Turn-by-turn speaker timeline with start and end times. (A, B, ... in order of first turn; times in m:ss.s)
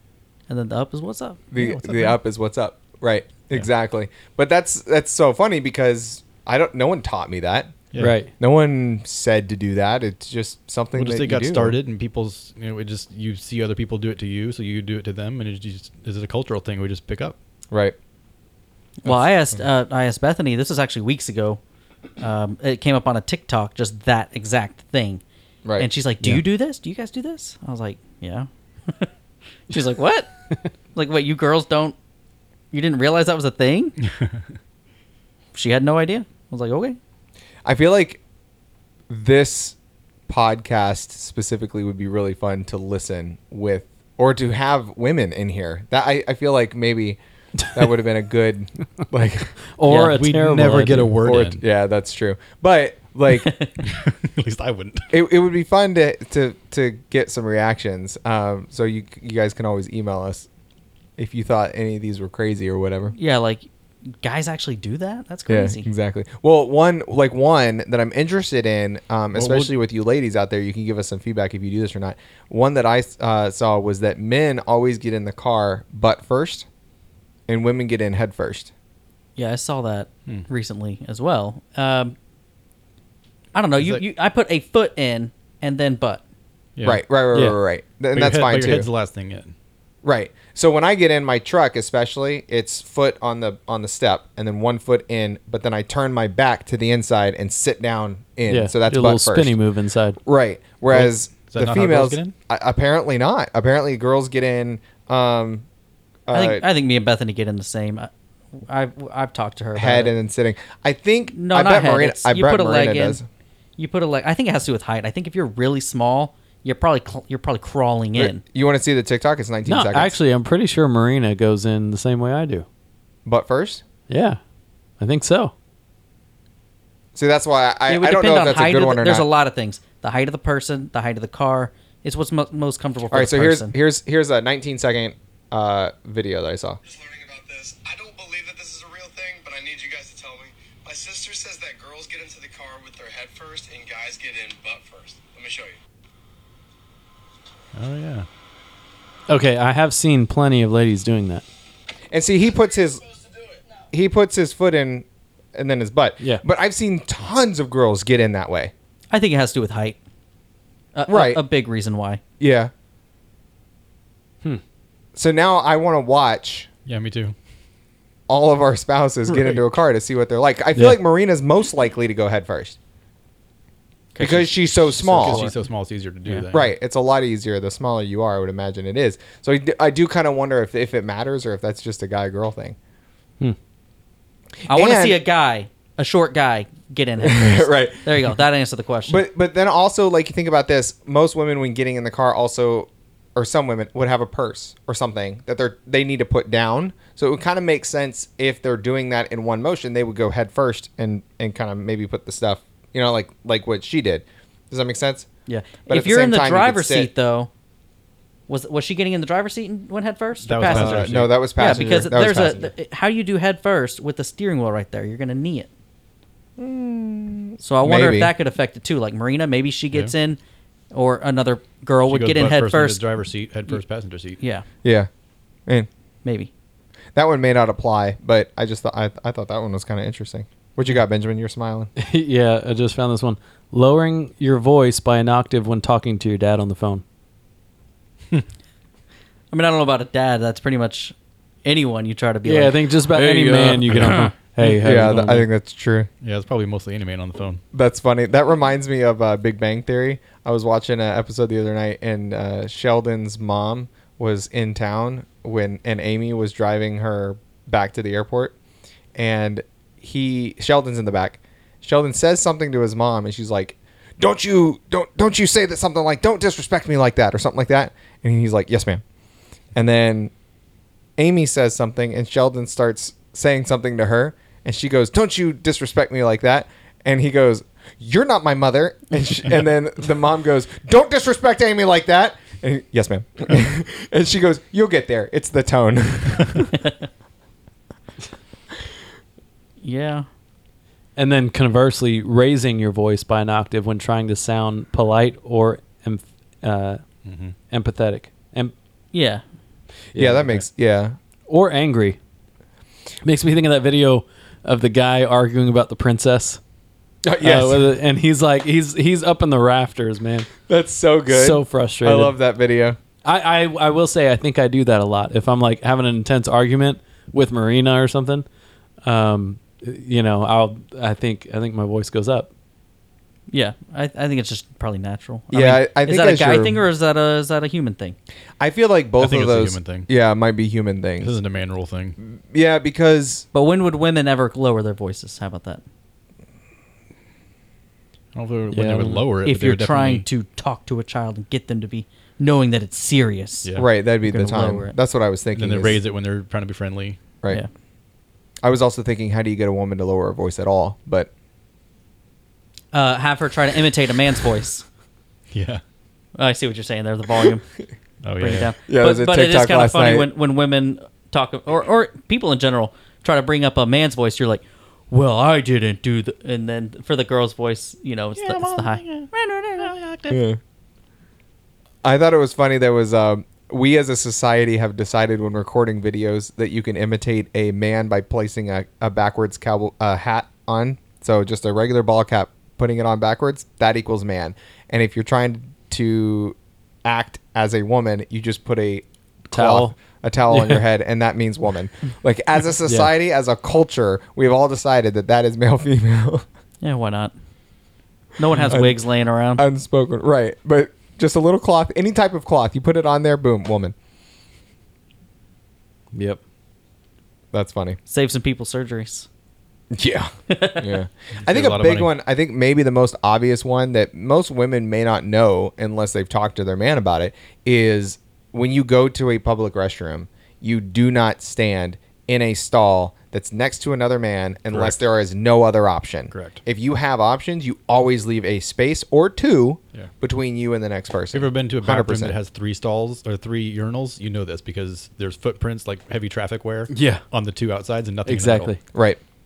0:00.5-0:01.4 A
0:01.5-0:07.8 B
0:01.6-0:02.2 C
0:08.0-0:08.3 D
0:08.4-0:11.8 B
0:10.9-0:17.4 C
0:17.7-0:18.0 B
0:19.0-0:21.6 A
0:22.2-0:25.2 A
0:25.8-0:29.1 A
0:29.7-0:30.3 A
0:30.9-0:32.0 A
0:32.7-0:34.0 A
0:35.5-0:37.0 A
0:37.6-0:38.2 B
0:39.1-0:39.7 B
0:40.3-0:47.2 B
0:47.7-0:49.6 B
0:49.8-0:51.1 D
0:49.9-0:51.6 C
0:51.2-0:53.5 B
0:53.4-0:53.7 A
0:53.8-0:55.1 C
0:55.1-1:00.5 B
1:01.2-1:03.1 B
1:03.2-1:05.9 A
1:05.5-1:16.6 B
1:09.3-1:09.7 C
1:17.5-1:18.7 B
1:19.4-1:22.1 A
1:23.5-1:26.2 A
1:26.8-1:27.0 C
1:26.8-1:28.9 B
1:28.1-1:29.5 C
1:30.0-1:39.6 B
1:38.5-1:40.2 D
1:40.2-1:45.6 B
1:40.9-1:42.3 C
1:46.3-1:46.6 B
1:46.3-1:50.1 A
1:49.8-1:53.2 B
1:51.3-1:53.2 A
1:53.8-1:58.4 A
1:58.2-2:00.2 B
1:59.6-2:02.6 D
2:03.2-2:03.8 B
2:04.1-2:04.4 D
2:05.0-2:05.5 D
2:07.1-2:09.3 B
2:07.9-2:13.7 A
2:13.1-2:16.8 B
2:16.9-2:25.7 E
2:27.7-2:28.3 C
2:29.3-2:31.4 D
2:32.1-2:33.1 B
2:33.8-2:38.7 B
2:39.1-2:40.0 A
2:40.9-2:42.2 A
2:41.1-2:41.4 B
2:42.4-2:42.7 B
2:45.2-2:46.7 B
2:46.8-2:47.3 C
2:48.3-2:52.8 B
2:54.1-2:54.5 A
2:54.2-2:55.5 B
2:55.0-2:56.7 C
2:55.0-2:55.5 A
2:56.5-3:02.8 B
3:04.6-3:05.2 B
3:04.7-3:09.2 A
3:07.2-3:08.0 B
3:09.1-3:25.3 B
3:25.5-3:27.5 A
3:25.9-3:27.1 B
3:28.5-3:35.7 A
3:30.4-3:31.3 C
3:30.6-3:32.7 B
3:36.6-3:38.3 B
3:37.6-3:40.4 A
3:40.9-3:43.0 A
3:42.1-3:44.4 C
3:44.4-3:44.6 A
3:44.8-3:45.1 B
3:46.2-3:46.5 A
3:47.1-3:51.9 B
3:52.0-3:57.0 D
3:59.5-4:03.4 A
4:02.4-4:05.4 D
4:03.3-4:03.8 B
4:03.9-4:04.2 C
4:04.6-4:06.1 B
4:06.2-4:07.6 C
4:07.7-4:18.5 B
4:19.1-4:29.0 B
4:29.7-4:30.3 B
4:31.2-4:46.8 B
4:49.8-4:50.2 A
4:51.2-4:57.0 D
4:57.2-4:57.5 C
4:57.7-4:58.7 D
4:59.1-4:59.4 A
5:00.1-5:01.2 B
5:00.1-5:00.6 D
5:01.5-5:02.2 D
5:03.2-5:06.6 D
5:07.2-5:07.9 B
5:07.4-5:10.5 D
5:10.7-5:13.0 B
5:11.3-5:12.3 D
5:13.2-5:18.4 D
5:19.0-5:22.5 D
5:23.5-5:28.2 A
5:25.5-5:26.8 B
5:28.6-5:31.3 B
5:29.2-5:30.1 C
5:31.2-5:32.2 C
5:32.2-5:33.4 B
5:33.5-5:35.8 A
5:38.3-5:40.2 C
5:38.7-5:39.2 D
5:39.4-5:44.9 A
5:43.7-5:46.0 B
5:45.5-5:47.2 C
5:48.6-5:51.3 B
5:52.9-5:54.8 A
5:55.5-5:55.8 C
5:56.4-5:57.6 A
5:58.2-5:58.7 C
5:58.4-6:09.9 A
5:58.8-6:00.3 B
6:08.4-6:10.4 C
6:10.3-6:10.6 B
6:12.0-6:36.4 B
6:29.5-6:29.9 D
6:30.5-6:30.8 D
6:36.8-6:37.3 A
6:38.4-6:39.6 A
6:38.7-6:39.0 B
6:39.6-6:43.9 B
6:46.1-6:46.4 D
6:47.5-6:48.0 B
6:48.1-6:49.3 A
6:49.9-7:12.3 B
6:50.5-6:50.9 A
6:51.3-6:52.1 C
7:04.7-7:05.0 C
7:06.3-7:06.6 C
7:11.3-7:18.7 C
7:16.9-7:17.2 D
7:18.2-7:18.8 D
7:18.9-7:19.2 B